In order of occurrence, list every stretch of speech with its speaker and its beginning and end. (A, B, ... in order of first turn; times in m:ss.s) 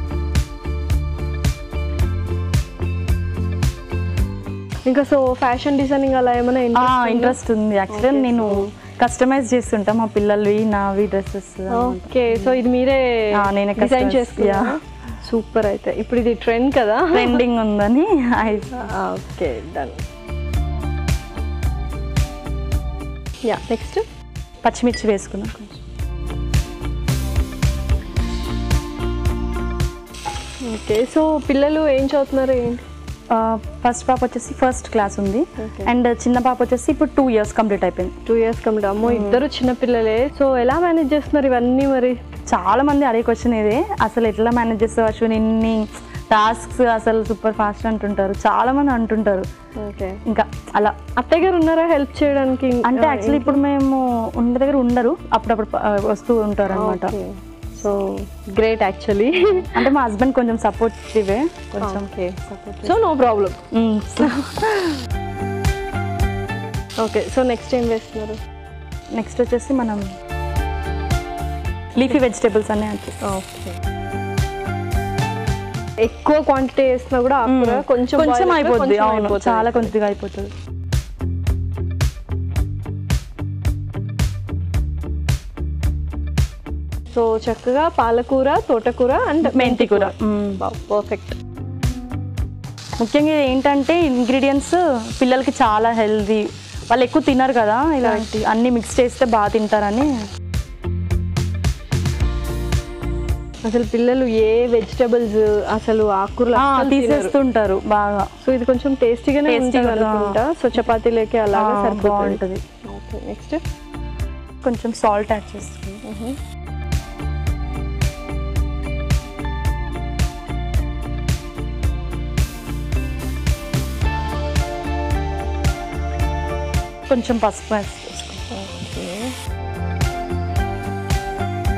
0:04.8-0:07.4 A
0:06.7-0:12.6 B
0:07.9-0:08.7 A
0:11.7-0:17.4 A
0:13.4-0:14.8 B
0:17.1-0:18.9 B
0:18.7-0:20.0 A
0:23.4-0:24.0 A
0:24.6-0:25.8 B
0:30.6-0:32.8 A
0:33.3-0:38.1 B
0:35.6-0:35.9 A
0:38.2-0:42.2 A
0:39.0-0:39.4 B
0:42.5-0:49.4 B
0:49.8-0:50.2 A
0:50.2-0:51.0 B
0:51.2-0:53.6 A
0:52.8-0:57.1 B
0:56.7-0:59.8 A
0:59.7-1:03.0 B
1:01.8-1:03.6 A
1:03.7-1:04.6 B
1:04.2-1:04.9 A
1:07.0-1:08.4 A
1:09.1-1:10.1 B
1:11.9-1:13.2 B
1:13.2-1:13.7 A
1:16.0-1:19.9 A
1:17.4-1:20.5 B
1:27.1-1:31.3 A
1:29.4-1:30.6 B
1:33.0-1:40.1 B
1:38.0-1:38.3 A
1:43.6-1:47.3 A
1:46.5-1:48.3 B
1:48.4-1:53.6 A
1:49.5-1:50.4 B
1:51.5-1:52.6 B
1:54.6-1:56.0 B
1:56.0-1:56.4 A
2:07.1-2:08.4 B
2:08.5-2:09.3 A